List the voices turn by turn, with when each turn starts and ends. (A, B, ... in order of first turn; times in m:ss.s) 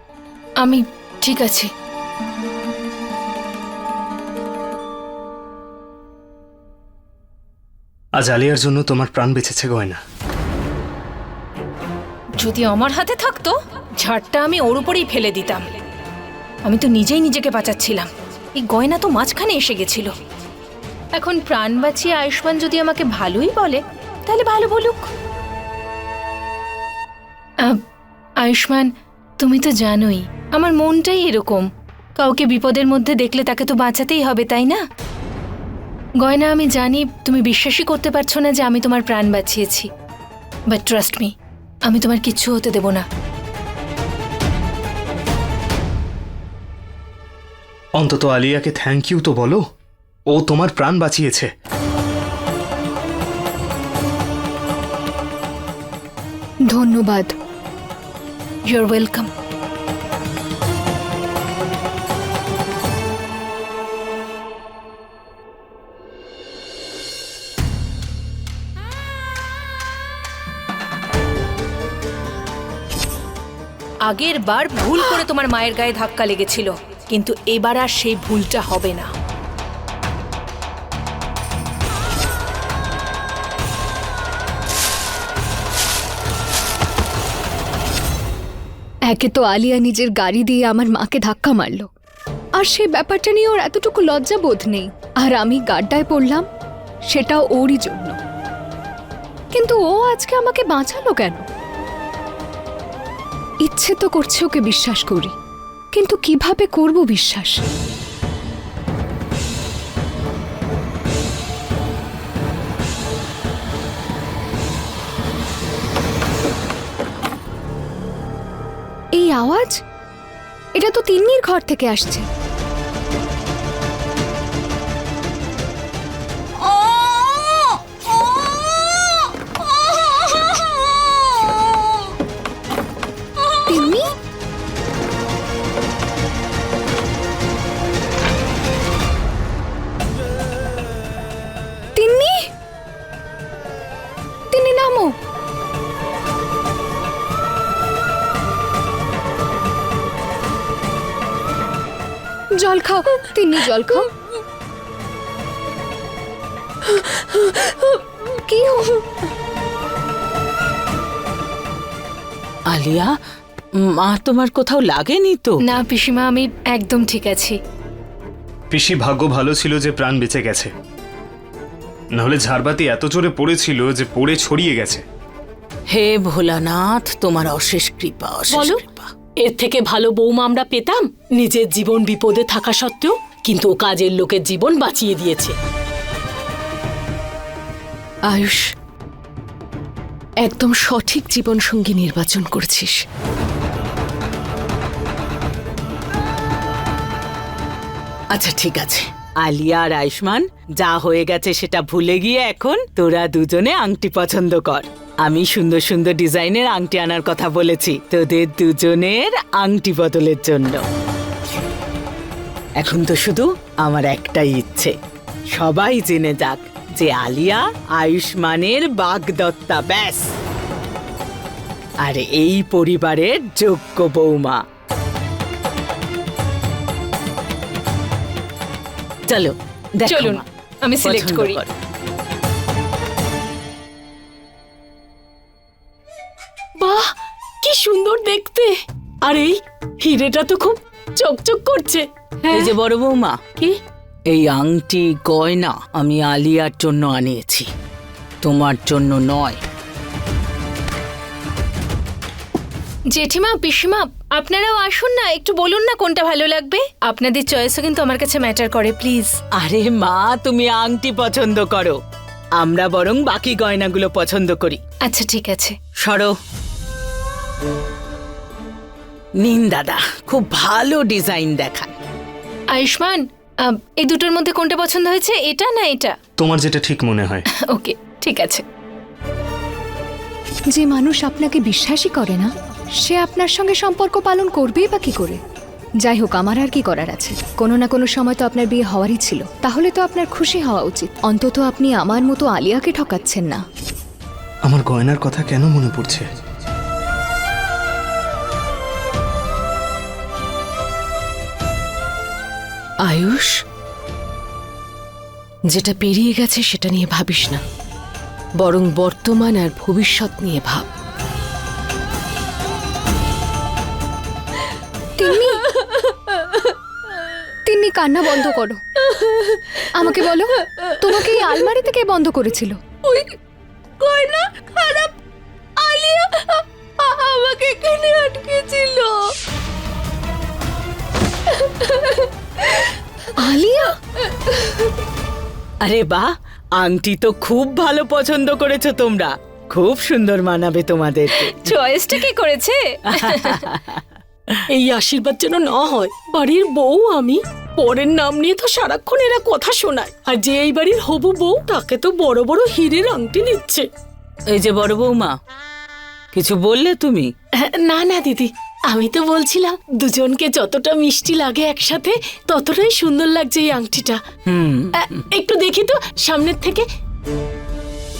0:00.6-0:01.7 A
0:08.2-0:10.0 B
0:12.4-0:15.7 A
0:16.6-0:20.2 A
0:21.2-0:25.1 A
0:28.4-0:34.8 A
0:36.2-0:39.9 A
0:40.7-0:41.3 A
0:41.9-0:43.0 A
0:48.0-0:49.6 B
0:50.3-0:51.5 B
0:56.7-0:57.4 C
0:58.7-0:59.3 A
1:14.1-1:19.1 A
1:29.1-1:31.9 C
1:32.6-1:36.5 C
1:37.1-1:38.2 C
1:39.5-1:41.4 C
1:43.6-1:45.3 C
1:45.9-1:47.7 C
1:59.1-1:59.8 C
2:00.8-2:02.3 C
2:13.6-2:14.1 C
2:22.0-2:22.5 C
2:24.5-2:25.2 C
2:32.6-2:34.1 C
2:38.2-2:39.2 C
2:42.7-2:43.1 D
2:43.8-2:45.6 D
2:45.6-2:47.6 A
2:48.7-2:50.7 B
2:52.1-2:55.0 B
2:55.9-2:59.1 D
2:58.5-2:58.8 E
2:59.4-3:05.5 E
3:08.3-3:08.6 F
3:10.4-3:13.0 F
3:18.3-3:30.8 D
3:32.8-3:35.0 D
3:35.5-3:40.3 D
3:42.0-3:44.6 D
3:49.3-3:50.4 D
3:50.0-3:51.6 A
3:51.0-3:51.7 D
3:56.8-4:02.7 E
4:02.5-4:03.4 D
4:04.3-4:07.7 D
4:08.4-4:09.6 D
4:13.1-4:19.4 A
4:19.6-4:22.0 D
4:22.6-4:24.8 D
4:25.0-4:25.8 A
4:26.0-4:26.4 D
4:29.4-4:31.9 D
4:32.7-4:36.2 A
4:36.4-4:37.4 B
4:37.5-4:38.6 A
4:40.7-4:45.4 C
4:46.0-4:53.6 C
4:54.6-4:56.3 B
5:03.0-5:03.5 F
5:05.7-5:07.6 F
5:08.6-5:10.9 F
5:15.2-5:15.6 C
5:15.8-5:16.6 E
5:17.6-5:18.8 C
5:19.2-5:19.8 E
5:19.9-5:22.8 C
5:23.1-5:23.3 E
5:24.0-5:25.1 E
5:25.8-5:29.3 E
5:31.6-5:32.2 E
5:33.4-5:34.0 C
5:35.8-5:41.8 D
5:41.3-5:43.7 A
5:43.1-5:44.6 D
5:44.7-5:53.9 E
5:54.5-5:55.4 D
5:56.3-5:57.3 D
5:57.6-6:04.2 E
6:04.5-6:05.2 D
6:05.0-6:06.9 E